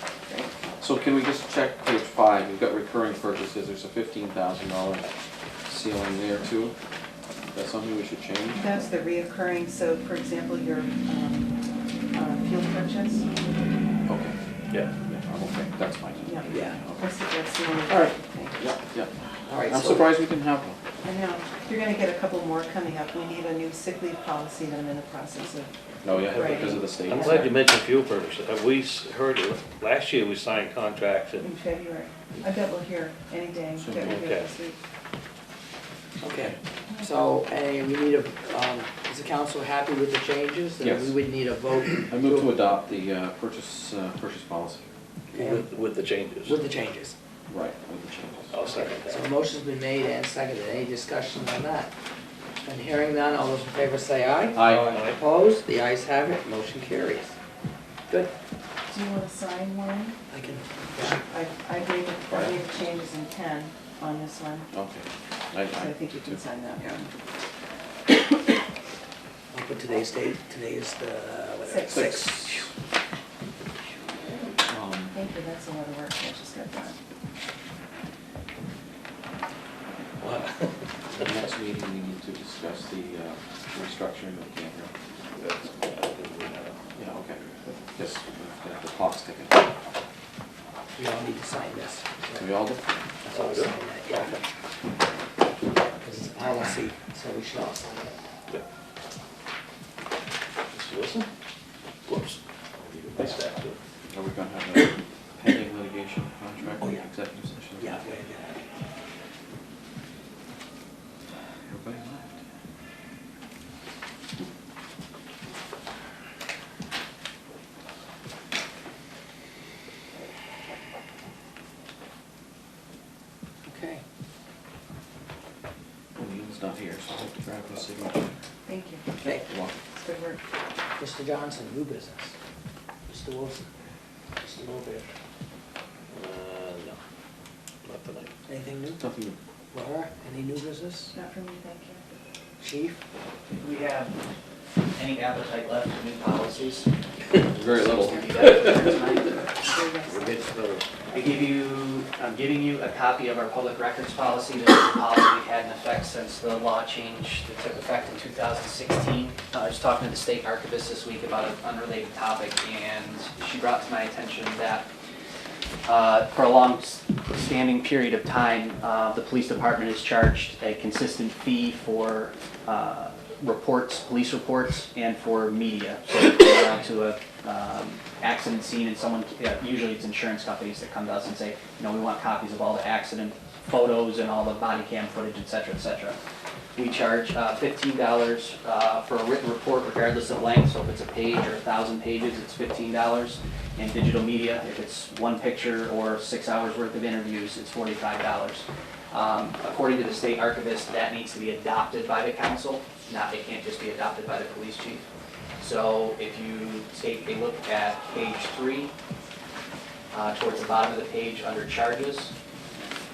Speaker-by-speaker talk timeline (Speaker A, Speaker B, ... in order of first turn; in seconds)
Speaker A: 0.8-5.1, 5.7-6.7, 7.5-8.7, 14.1-14.4, 15.1-17.1, 17.9-20.8, 26.0-27.5, 33.8-34.2, 40.8-41.2, 42.0-44.9, 47.5-48.5, 54.5-55.0, 62.3-62.6, 64.7-66.4, 71.9-72.7, 74.7-75.1, 81.1-84.9, 87.0-89.6, 92.3-92.8, 104.1-108.0, 111.7-112.4, 126.2-128.3, 129.2-129.8, 139.0-139.4, 147.5-148.8
Speaker B: 8.5-11.6, 12.1-13.3, 16.2-18.8, 21.0-27.1, 31.4-34.8, 58.9-60.2, 61.2-64.7, 65.7-67.1, 71.7-72.1, 75.1-77.0, 128.7-129.2, 129.9-130.4, 141.1-142.0, 148.8-150.5
Speaker C: 16.5-16.8, 19.5-20.1, 36.2-42.5, 45.3-45.7, 46.5-47.1, 48.7-51.9, 52.6-57.3, 60.3-61.2, 69.5-72.6, 80.2-80.5, 91.0-92.5, 93.2-94.4, 96.0-98.2, 106.8-107.1, 107.8-108.6, 123.7-124.0, 129.2-129.5, 131.0-132.3, 133.1-133.7, 134.4-135.1, 138.5-139.0, 139.7-141.1, 142.6-143.0
Speaker D: 27.1-31.5, 34.0-34.5, 45.3-46.6, 48.5-49.3, 54.6-55.2, 85.4-86.8, 93.3-94.2, 100.7-101.3, 102.1-103.8, 136.1-137.0, 137.8-138.3, 150.1-150.9
Speaker E: 143.5-144.2, 144.9-146.9, 147.6-149.4, 151.1-164.9, 165.8-186.2, 186.8-205.1, 205.6-208.9, 210.1-212.3